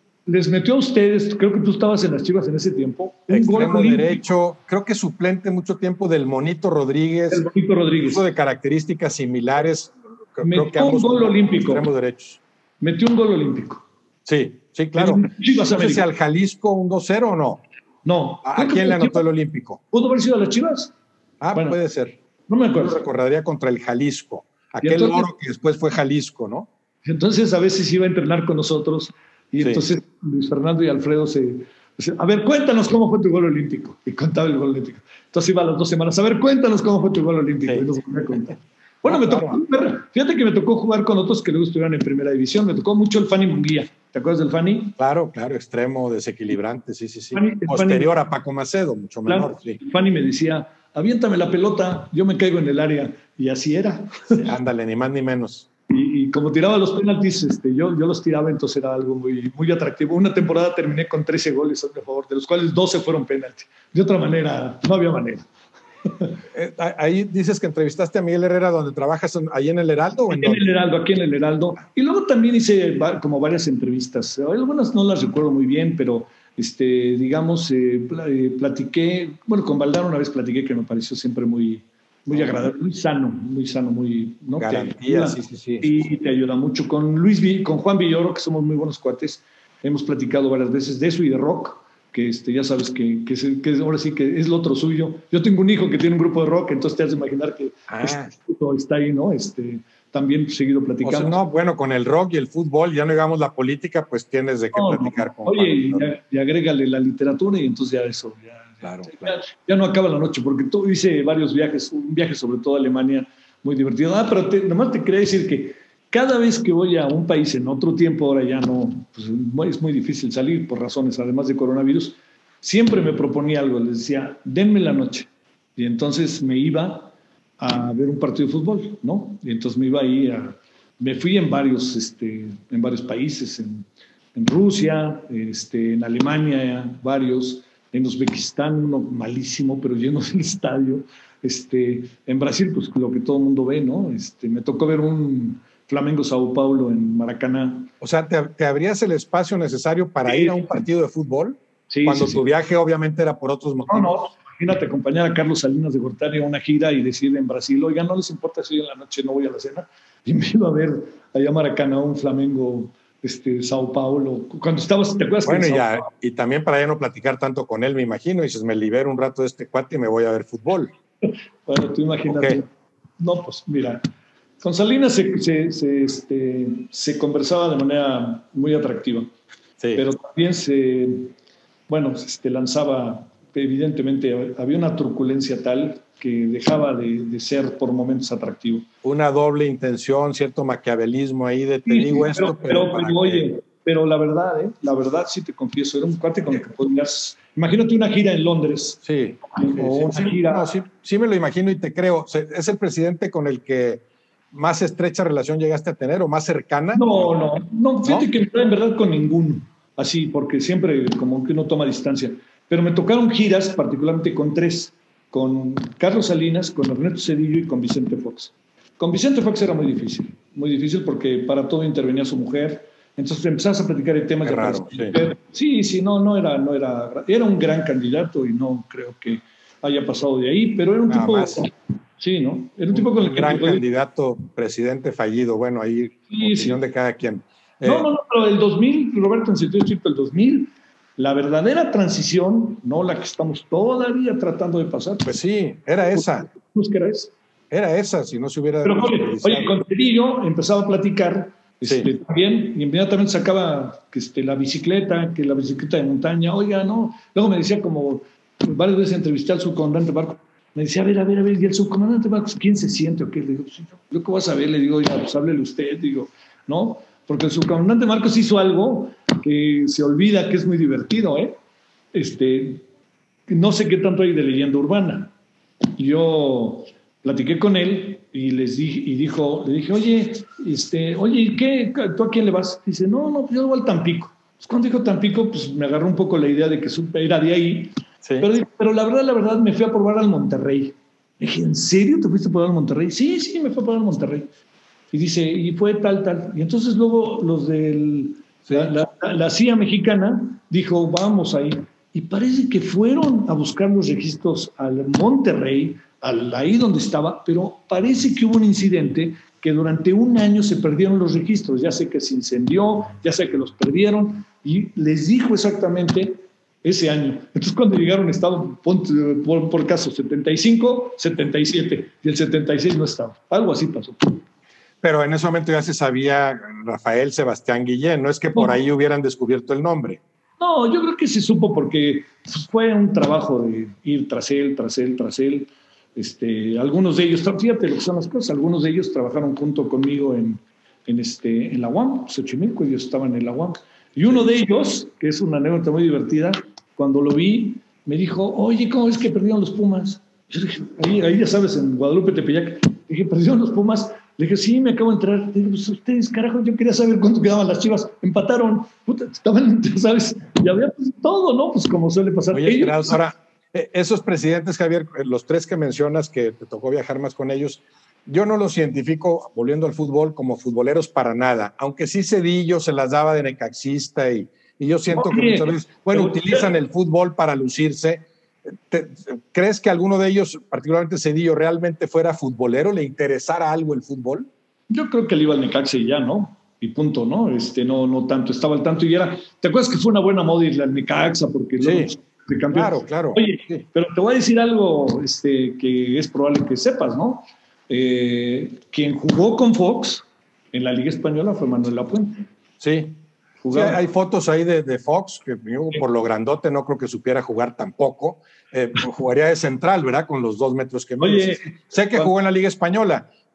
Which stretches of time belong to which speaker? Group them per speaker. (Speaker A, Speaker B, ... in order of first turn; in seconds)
Speaker A: 0.3-4.2, 7.3-8.2, 10.4-11.9, 12.8-13.8, 14.9-16.0, 18.0-19.2, 19.9-20.9, 22.5-23.0, 24.8-25.3, 27.1-45.0, 47.3-48.1, 49.3-54.5, 55.9-65.5, 66.0-66.4, 70.3-101.4, 104.7-147.9, 150.3-150.8, 151.9-152.4, 153.9-166.1, 171.2-174.0, 174.6-179.3, 179.9-181.3, 181.9-188.9, 191.9-200.7, 206.9-233.8, 236.3-236.8, 237.8-245.3, 246.0-247.3, 248.8-271.6, 272.1-272.8, 273.5-275.3, 275.9-294.5, 295.1-324.4, 328.5-328.8, 330.6-363.2, 375.1-376.7, 384.9-402.4, 403.6-404.0, 411.2-412.3
Speaker B: 3.3-7.5, 8.0-12.4, 14.3-17.6, 18.4-19.8, 21.4-22.2, 22.8-26.7, 39.0-39.6, 45.0-49.8, 54.4-55.6, 66.5-70.7, 82.3-82.7, 84.6-86.0, 97.9-98.3, 101.0-106.1, 108.8-109.3, 148.0-154.2, 165.4-170.9, 172.3-172.6, 189.0-193.5, 199.1-207.4, 224.4-225.2, 231.1-231.6, 232.9-238.1, 245.2-246.5, 247.7-249.7, 251.8-252.1, 288.2-288.5, 298.6-298.9, 325.0-330.2, 362.5-384.5, 391.8-392.1, 392.7-393.8, 402.8-403.2, 403.7-413.3